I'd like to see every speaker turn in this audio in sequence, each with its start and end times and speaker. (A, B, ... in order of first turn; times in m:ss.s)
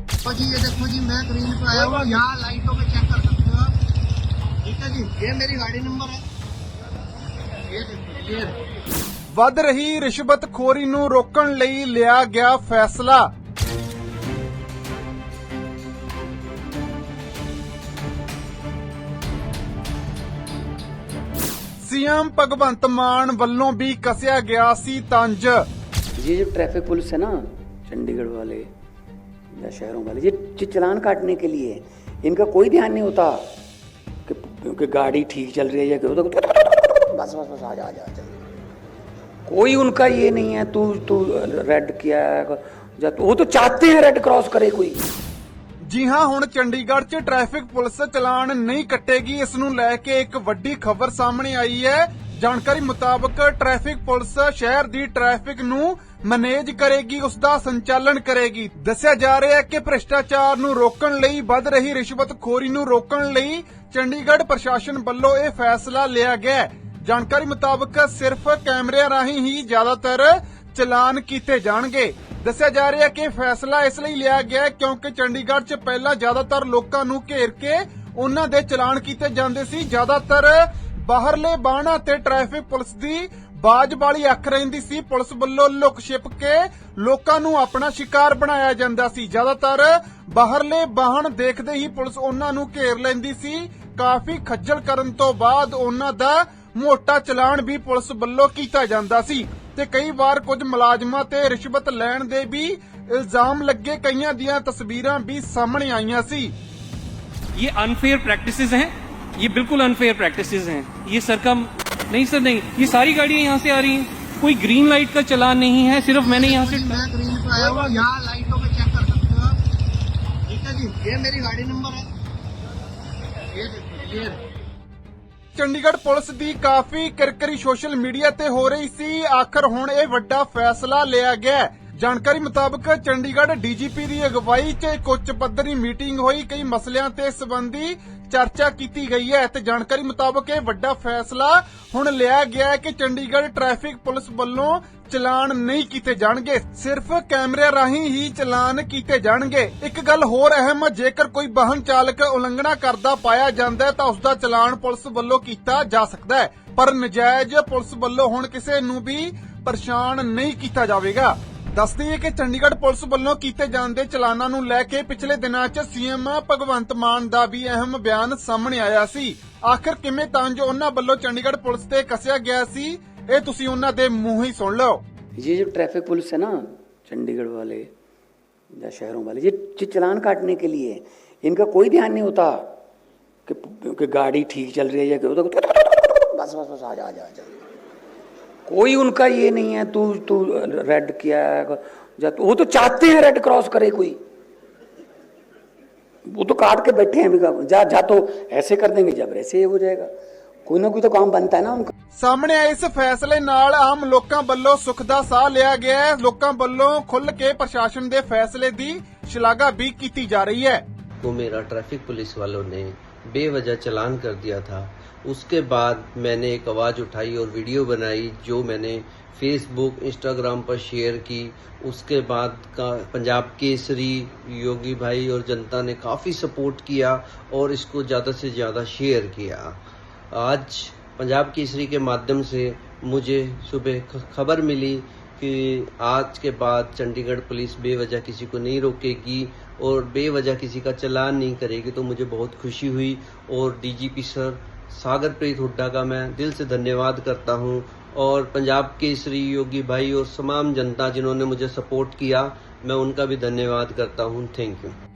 0:00.2-0:03.8 A
0:04.6-0:06.3 A
0:07.6-0:08.6 A
0:09.3-0:13.3 B
0:21.8-0:25.7 B
0:26.2-0:28.7 C
0:29.5-0:33.5 C
0:34.3-0:38.4 C
0:39.5-0:45.0 C
0:45.8-1:46.6 B
1:47.5-1:57.1 D
1:56.4-1:59.6 A
2:00.5-2:02.1 A
2:03.5-2:04.4 A
2:05.6-2:55.0 B
2:55.4-2:57.9 C
2:58.8-3:02.6 C
3:03.5-3:07.6 C
3:08.7-3:14.2 C
3:16.3-3:20.1 C
3:20.6-3:21.9 C
3:22.2-3:30.8 B
3:31.2-3:49.8 E
3:50.3-4:15.0 E